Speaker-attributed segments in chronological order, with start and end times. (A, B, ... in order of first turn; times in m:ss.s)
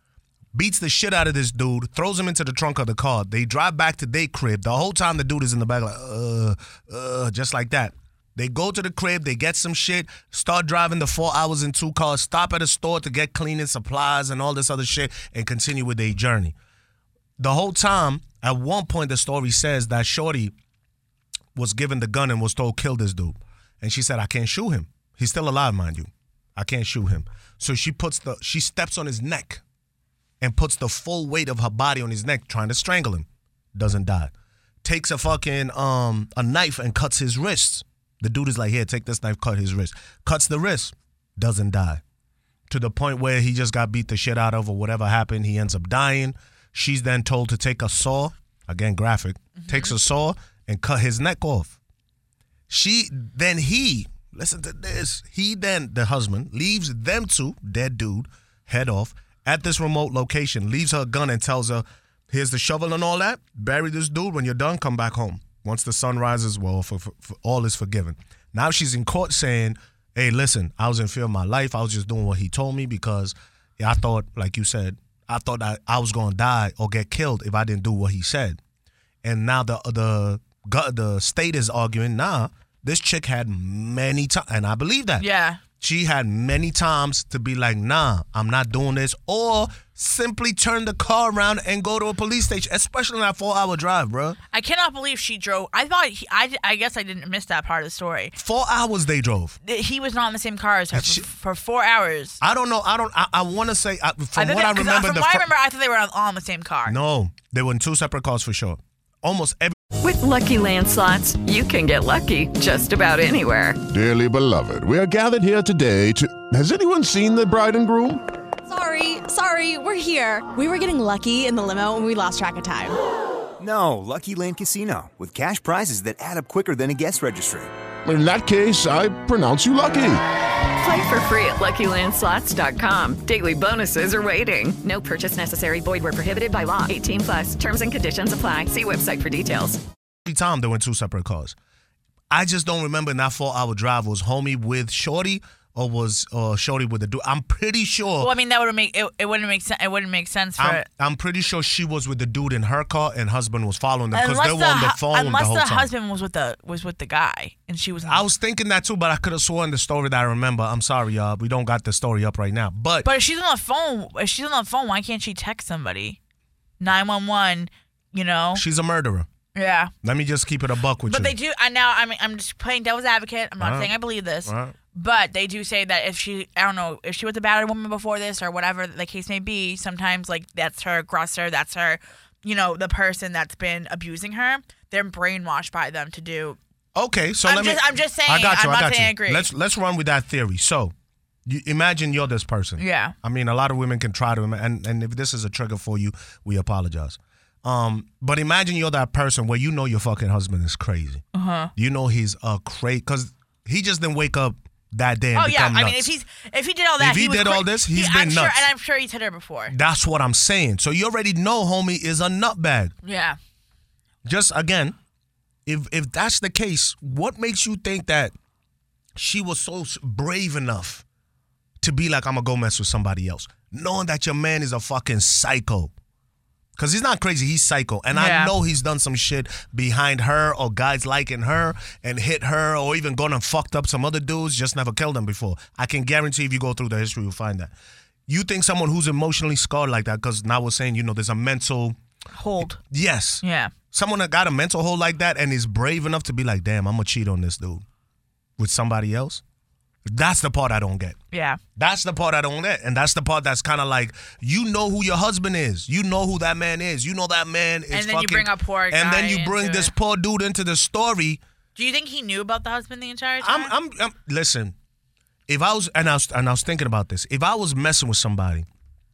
0:00.5-0:16.5 A
0:17.4-0:20.5 A
0:21.5-0:29.6 A
0:30.4-0:34.3 A
0:34.8-0:42.0 A
0:42.7-0:51.8 A
0:49.6-0:49.9 B
0:52.7-1:18.6 A
1:19.2-1:25.3 A
1:25.2-1:25.6 B
1:25.8-1:34.4 A
1:34.5-1:38.4 B
1:38.4-1:39.6 A
1:39.6-1:42.4 B
1:40.9-1:41.2 A
1:42.4-1:45.5 A
1:44.4-1:46.9 B
1:46.8-1:49.8 A
1:50.0-1:53.8 C
1:53.9-1:58.2 D
1:58.6-2:03.0 E
2:03.6-2:07.7 F
2:08.0-2:10.2 D
2:10.8-2:19.8 C
2:20.2-2:21.6 A
2:22.3-2:28.3 A
2:28.2-2:30.8 B
2:30.6-2:35.9 A
2:34.1-2:38.2 B
2:38.0-2:43.1 A
2:43.0-2:46.2 B
2:46.8-2:48.6 B
2:48.5-2:49.3 A
2:49.5-2:49.9 B
2:50.0-2:51.3 A
2:51.0-3:06.6 B
2:53.6-2:53.9 A
2:54.4-2:54.7 A
3:06.9-3:10.9 A
3:07.4-3:09.5 B
3:11.4-3:21.2 A
3:12.8-3:13.1 B
3:21.3-3:21.7 B
3:21.8-3:26.1 A
3:25.3-3:29.7 B
3:27.0-3:28.7 A
3:29.7-3:32.9 A
3:33.0-3:33.4 B
3:34.2-3:35.0 A
3:35.6-3:38.3 A
3:39.2-3:41.0 A
3:41.8-3:45.9 A
3:46.8-3:57.7 A
3:48.1-3:48.5 B
3:58.3-4:02.0 A
4:02.3-4:02.8 B
4:02.8-4:07.8 A
4:03.4-4:03.7 B
4:08.6-4:09.4 A
4:10.0-4:11.2 A
4:11.3-4:11.6 B
4:11.8-4:21.4 A
4:17.9-4:19.9 B
4:21.8-4:23.7 B
4:23.4-4:24.7 A
4:25.5-4:28.6 A